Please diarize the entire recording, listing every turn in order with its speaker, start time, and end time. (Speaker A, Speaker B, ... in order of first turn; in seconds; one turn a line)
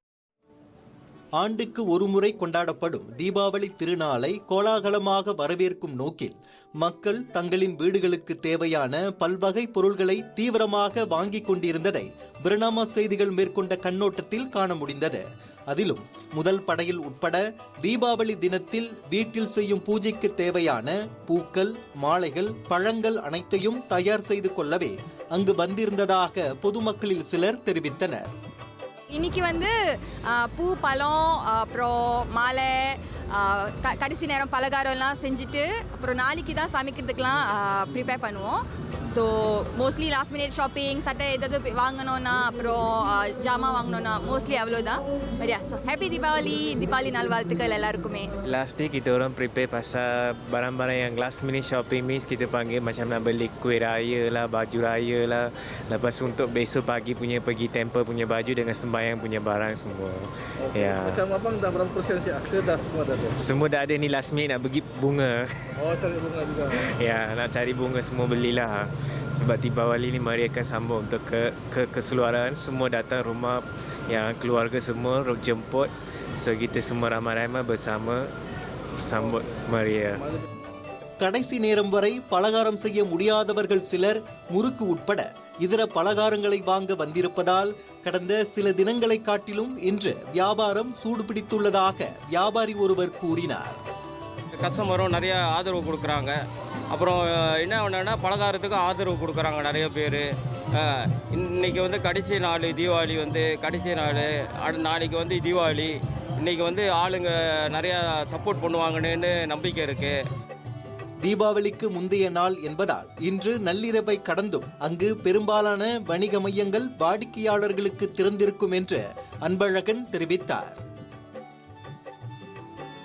Speaker A: 1.4-28.3
Speaker B: 29.1-48.3
Speaker C: 48.5-61.2
Speaker D: 60.6-63.3
Speaker C: 63.4-65.7
Speaker D: 65.8-66.8
Speaker C: 67.0-78.3
Speaker C: 79.0-80.2
Speaker D: 79.2-79.4
Speaker A: 81.2-93.8
Speaker E: 94.6-110.2
Speaker A: 111.2-120.8